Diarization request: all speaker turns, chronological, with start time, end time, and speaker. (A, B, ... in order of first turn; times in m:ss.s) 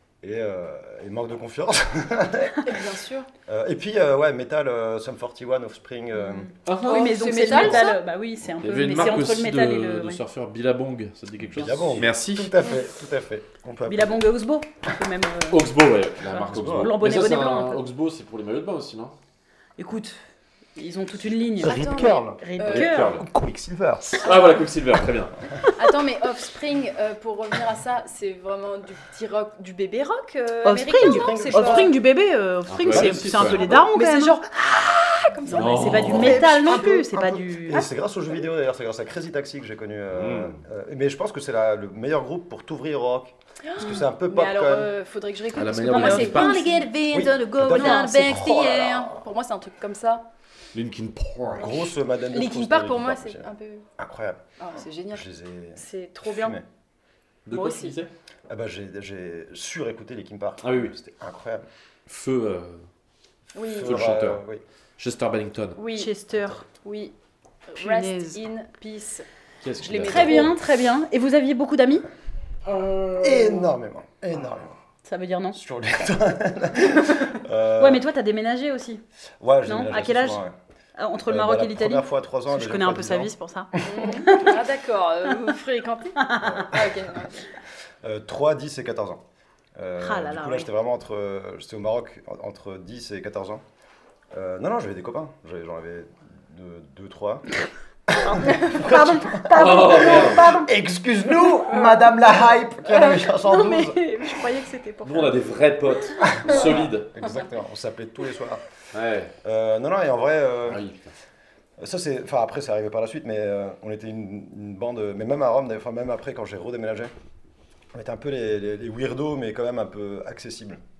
0:00.2-0:02.8 A
0:02.6-0:03.3 B
0:03.5-0:06.5 A
0:06.2-0:10.2 C
0:06.6-0:07.6 D
0:06.8-0:08.0 B
0:08.6-0:12.5 D
0:11.5-0:14.2 A
0:13.9-0:15.7 C
0:15.5-0:19.1 D
0:16.3-0:17.8 C
0:16.4-0:17.0 A
0:19.8-0:20.2 C
0:20.8-0:23.1 C
0:21.6-0:22.4 A
0:21.6-0:22.9 B
0:22.7-0:23.2 D
0:22.9-0:24.3 A
0:24.2-0:25.3 D
0:25.8-0:31.9 B
0:30.6-0:34.4 C
0:30.9-0:31.9 A
0:32.7-0:33.8 D
0:32.9-0:33.6 A
0:33.6-0:36.5 B
0:35.4-0:37.9 C
0:35.5-0:36.4 D
0:36.0-0:44.9 A
0:40.1-0:40.6 D
0:43.6-0:50.2 B
0:45.5-0:46.8 D
0:45.9-0:46.8 C
0:47.1-0:49.2 A
0:47.6-0:48.3 C
0:50.7-0:51.8 D
0:51.5-0:54.4 A
0:52.3-0:53.8 B
0:54.6-0:55.2 B
0:55.1-0:56.6 A
0:55.8-0:56.6 B
0:57.4-0:58.1 D
0:57.5-0:58.0 B
0:58.5-1:01.6 A
1:00.6-1:00.9 D
1:02.1-1:02.8 D
1:03.5-1:03.9 B
1:03.7-1:04.6 A
1:03.8-1:04.4 D
1:05.0-1:05.8 D
1:05.8-1:06.1 B
1:05.9-1:06.7 C
1:06.8-1:07.1 B
1:07.7-1:09.2 B
1:07.8-1:08.4 C
1:09.6-1:10.6 D
1:09.8-1:10.6 B
1:10.0-1:12.0 C
1:12.6-1:13.7 D
1:13.2-1:14.8 A
1:15.0-1:15.6 C
1:15.5-1:18.0 A
1:17.8-1:19.0 C
1:19.4-1:20.5 A
1:19.6-1:20.4 C
1:21.0-1:24.6 C
1:21.2-1:24.2 A
1:23.8-1:27.5 B
1:26.2-1:26.6 C
1:26.4-1:27.1 A
1:28.0-1:29.2 A
1:29.8-1:33.6 A
1:30.0-1:30.7 C
1:34.3-1:37.5 A
1:38.1-1:44.1 A
1:38.2-1:40.7 C
1:39.5-1:40.5 D
1:43.4-1:45.4 C
1:45.0-1:47.1 D
1:46.2-1:48.6 A
1:48.9-1:49.3 D
1:49.4-1:50.8 A
1:50.7-1:51.1 D
1:51.8-1:57.1 A
1:57.9-2:00.8 A